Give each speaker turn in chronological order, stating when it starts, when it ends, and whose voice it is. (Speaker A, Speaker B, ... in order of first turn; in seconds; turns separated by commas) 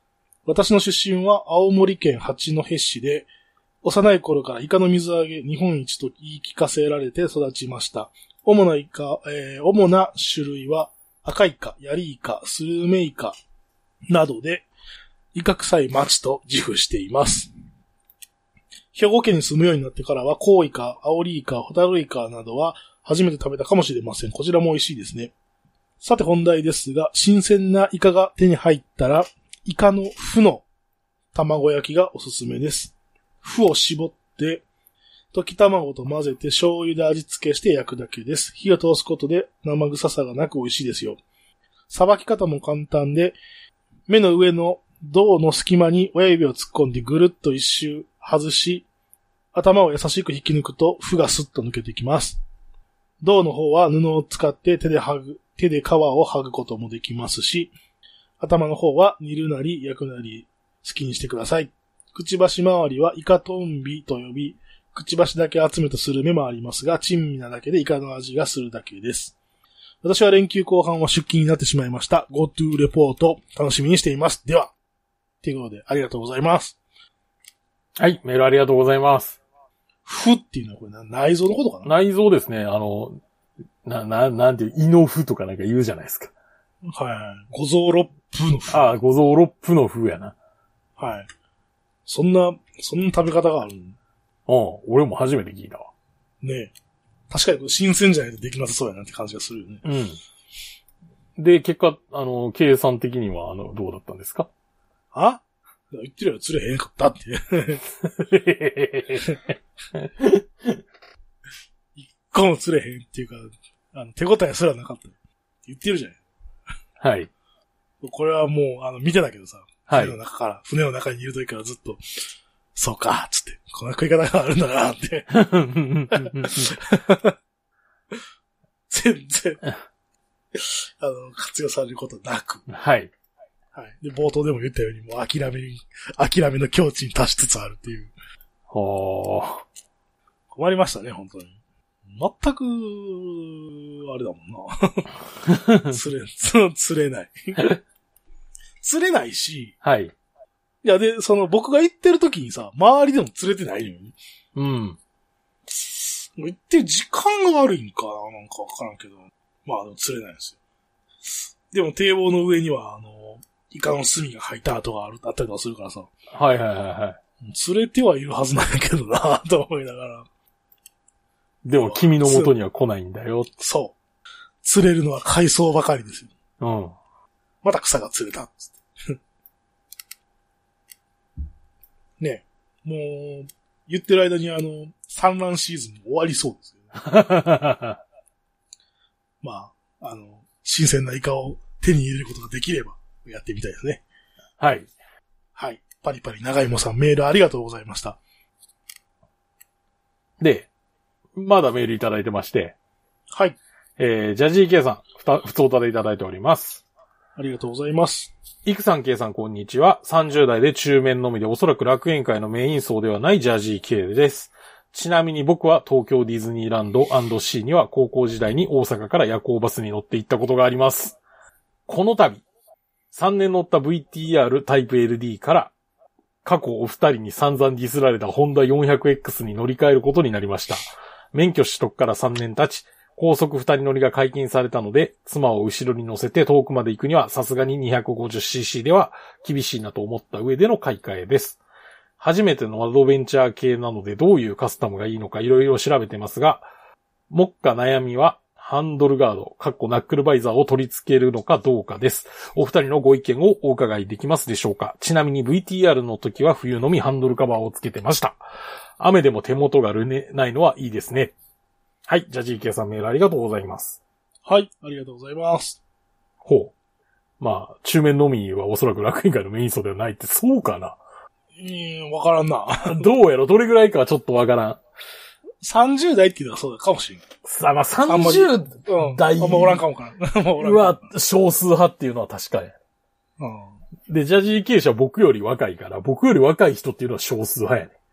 Speaker A: 0.5-3.3, Speaker A: 3.8-13.3, Speaker A: 14.1-14.7, Speaker A: 15.3-17.5, Speaker A: 18.9-25.3, Speaker A: 26.0-30.6, Speaker A: 31.3-34.6, Speaker A: 35.3-41.2, Speaker A: 41.9-43.4, Speaker A: 44.1-48.9, Speaker A: 49.5-52.4, Speaker A: 53.2-57.7, Speaker A: 58.4-69.3, Speaker A: 70.0-74.7, Speaker A: 75.4-76.8, Speaker B: 78.0-79.4, Speaker A: 80.0-81.9, Speaker B: 81.8-83.2, Speaker B: 83.8-86.3, Speaker A: 86.8-89.0, Speaker B: 88.7-90.3, Speaker A: 91.0-91.3, Speaker A: 92.1-94.0, Speaker B: 94.5-95.9, Speaker A: 96.4-96.7, Speaker A: 97.3-99.8, Speaker B: 99.8-100.2, Speaker B: 101.4-104.5, Speaker A: 105.1-107.8, Speaker B: 108.0-109.3, Speaker B: 109.9-110.8, Speaker A: 112.0-116.2, Speaker B: 117.0-117.3, Speaker A: 118.0-122.0, Speaker B: 119.9-120.2, Speaker A: 122.8-125.4, Speaker B: 125.3-126.7, Speaker A: 126.1-127.3, Speaker A: 128.9-129.6, Speaker A: 130.5-132.7, Speaker B: 132.7-133.1, Speaker A: 133.7-138.1, Speaker B: 138.7-139.6, Speaker A: 140.5-141.5, Speaker A: 142.1-145.2, Speaker B: 145.5-146.0, Speaker A: 145.8-147.7, Speaker A: 148.8-149.8, Speaker B: 149.8-150.1, Speaker A: 150.8-154.1, Speaker B: 154.5-155.0, Speaker A: 155.7-160.6, Speaker A: 161.7-166.1, Speaker B: 166.3-167.2, Speaker A: 167.4-170.3, Speaker B: 171.6-173.5, Speaker A: 171.8-172.5, Speaker A: 173.6-174.0, Speaker A: 174.6-176.3, Speaker B: 176.6-177.0, Speaker A: 177.6-179.1, Speaker A: 182.2-187.0, Speaker B: 187.0-188.0, Speaker A: 189.4-194.0, Speaker B: 194.6-194.9, Speaker A: 195.6-198.2, Speaker B: 200.4-200.7, Speaker B: 201.3-202.8, Speaker A: 203.3-203.6, Speaker B: 204.0-206.8, Speaker A: 207.4-208.3, Speaker B: 208.6-221.2, Speaker B: 221.9-222.4, Speaker B: 223.1-225.7, Speaker B: 226.4-241.6, Speaker B: 242.2-246.7, Speaker B: 247.3-258.4, Speaker B: 259.0-261.3, Speaker B: 262.1-264.0, Speaker A: 264.4-265.8, Speaker B: 266.4-266.7, Speaker B: 267.4-271.0, Speaker A: 271.6-273.1, Speaker B: 272.8-274.8, Speaker A: 275.6-277.2, Speaker B: 277.4-279.8, Speaker A: 278.1-281.1, Speaker B: 280.6-282.8, Speaker A: 283.4-283.8, Speaker B: 284.1-287.9